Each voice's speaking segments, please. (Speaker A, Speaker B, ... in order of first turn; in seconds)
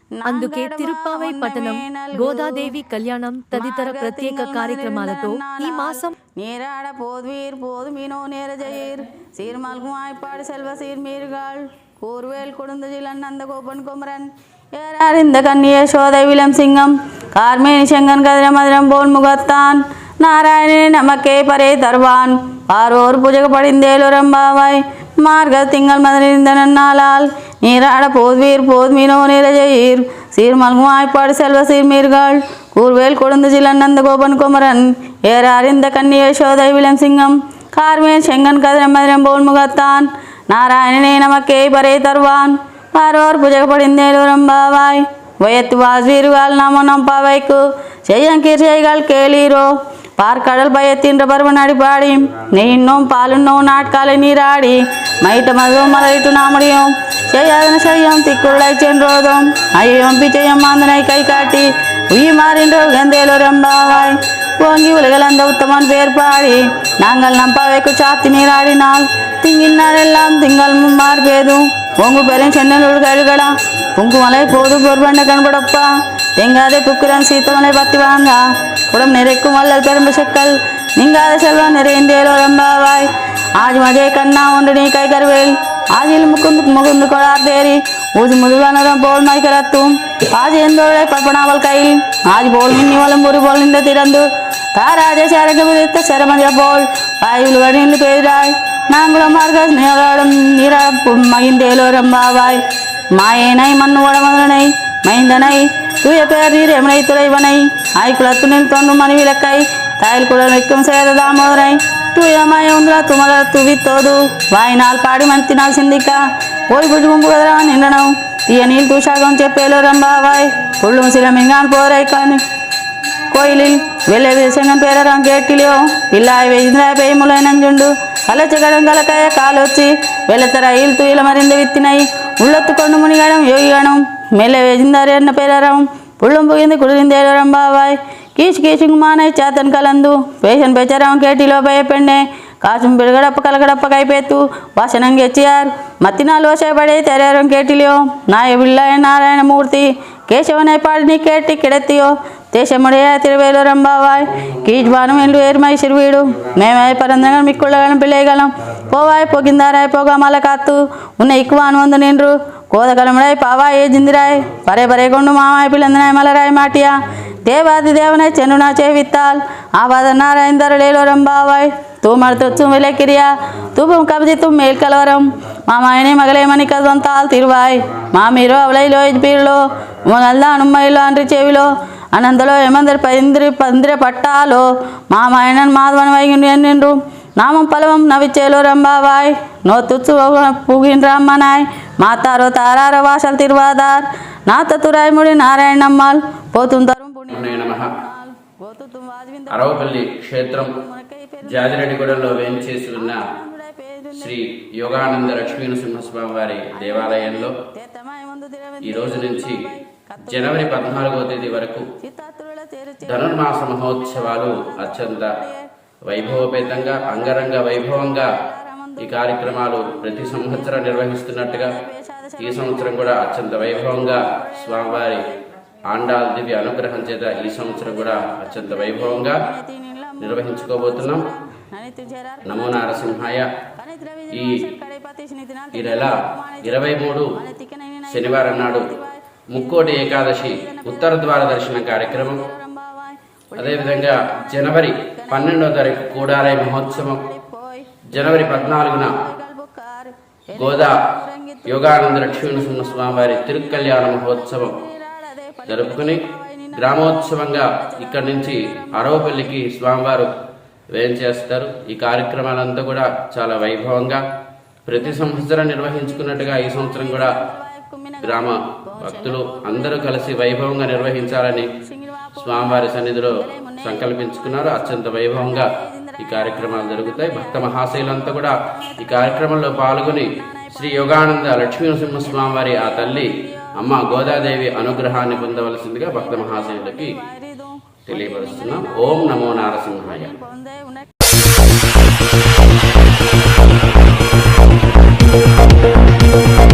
Speaker A: 0.2-2.8, 3.5-102.6, 103.1-122.4, 123.3-206.0, 206.7-225.2, 228.8-259.6, 266.5-284.4, 285.0-291.1
Speaker B: 0.3-6.1
Speaker C: 197.3-197.9, 199.5-200.8, 201.5-203.2, 204.2-207.6, 208.8-209.7, 210.2-211.9, 213.1-215.4, 216.1-218.3, 219.0-221.8, 222.4-225.2, 225.9-229.4, 230.2-231.2, 232.4-233.5, 234.3-234.6, 235.7-237.3, 238.1-238.9, 239.5-242.5, 243.6-247.3, 248.1-249.2, 250.5-251.0, 251.7-254.8, 255.7-260.3, 260.9-264.2, 264.9-267.4, 268.2-271.7, 272.4-287.2, 288.1-290.3